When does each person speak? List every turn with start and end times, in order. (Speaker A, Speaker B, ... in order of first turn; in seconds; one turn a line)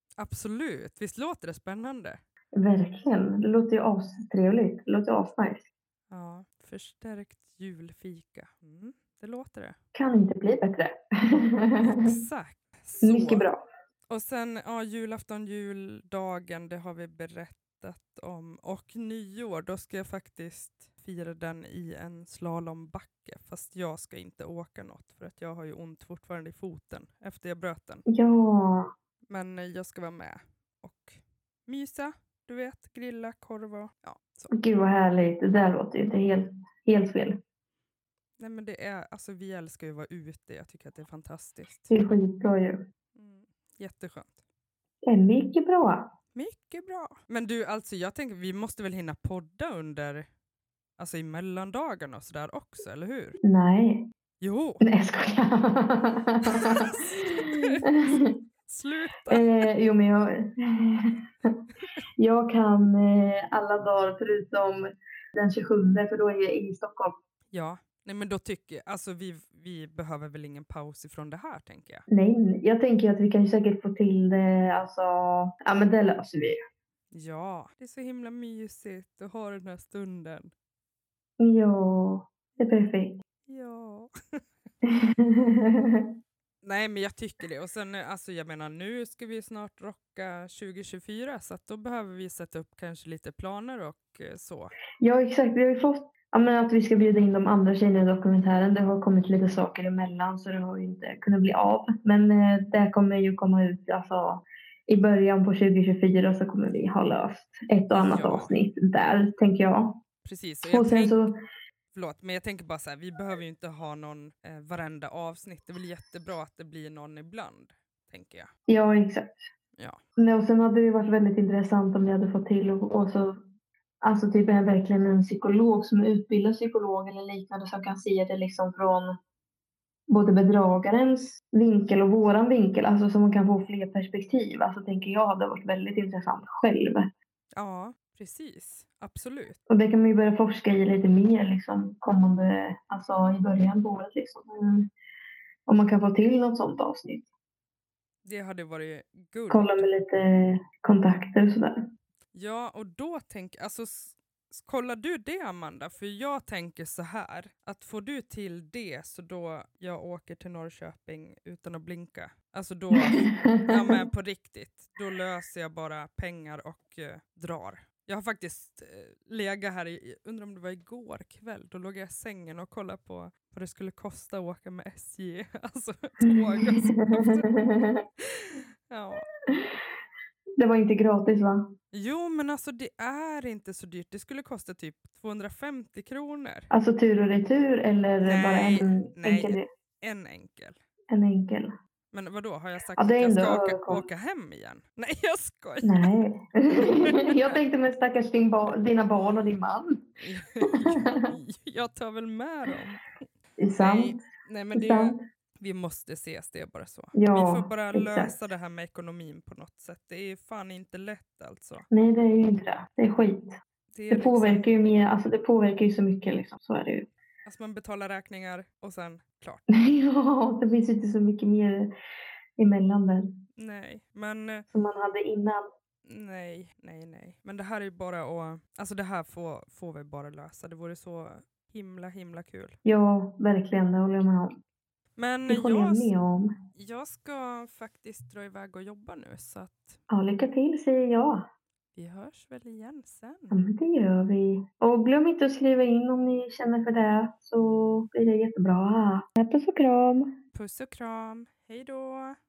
Speaker A: 0.2-2.2
Speaker B: 2.5-5.7
Speaker A: 6.1-9.8
Speaker B: 9.9-12.1
Speaker A: 11.8-13.5
Speaker B: 13.0-13.6
Speaker A: 14.1-28.0
Speaker B: 28.1-28.9
Speaker A: 29.3-34.5
Speaker B: 34.5-37.4
Speaker A: 38.4-41.9
Speaker B: 41.9-42.8
Speaker A: 43.1-44.4
Speaker B: 45.0-46.0
Speaker A: 46.3-50.3
Speaker A: 51.0-53.4
Speaker B: 53.4-54.1
Speaker A: 54.4-54.8
Speaker B: 54.8-58.3
Speaker A: 56.5-59.7
Speaker B: 59.3-61.6
Speaker B: 62.2-67.2
Speaker A: 67.5-72.1
Speaker B: 72.1-76.6
Speaker A: 77.1-80.5
Speaker B: 81.4-83.2
Speaker A: 83.5-84.7
Speaker B: 84.9-86.1
Speaker A: 86.6-94.7
Speaker B: 95.0-110.0
Speaker A: 107.9-108.5
Speaker A: 110.2-111.2
Speaker B: 110.7-111.3
Speaker A: 111.9-118.5
Speaker B: 118.7-119.5
Speaker B: 120.2-123.4
Speaker B: 124.0-129.2
Speaker B: 130.1-137.1
Speaker A: 137.5-139.6
Speaker B: 139.7-144.9
Speaker B: 145.7-147.3
Speaker A: 148.2-149.9
Speaker B: 149.5-151.7
Speaker A: 152.3-179.2
Speaker B: 163.0-164.0
Speaker B: 176.2-177.9
Speaker B: 179.5-179.8
Speaker B: 180.6-181.7
Speaker A: 181.9-186.7
Speaker B: 186.7-189.7
Speaker A: 188.2-190.8
Speaker B: 191.1-191.7
Speaker A: 192.1-196.1
Speaker B: 193.0-194.1
Speaker B: 195.8-200.0
Speaker A: 196.8-197.6
Speaker A: 200.2-203.0
Speaker B: 200.7-201.3
Speaker B: 203.6-204.2
Speaker A: 203.8-211.8
Speaker B: 204.7-205.2
Speaker B: 207.1-208.3
Speaker B: 211.9-213.5
Speaker A: 213.9-214.7
Speaker B: 214.1-217.1
Speaker A: 217.4-219.7
Speaker B: 219.7-221.9
Speaker B: 222.6-223.2
Speaker A: 223.6-224.7
Speaker B: 224.7-225.7
Speaker A: 226.0-232.8
Speaker B: 232.8-234.6
Speaker A: 235.2-236.1
Speaker B: 235.5-236.5
Speaker A: 236.7-240.0
Speaker B: 240.1-241.4
Speaker A: 241.9-243.6
Speaker B: 243.5-250.3
Speaker A: 250.5-252.4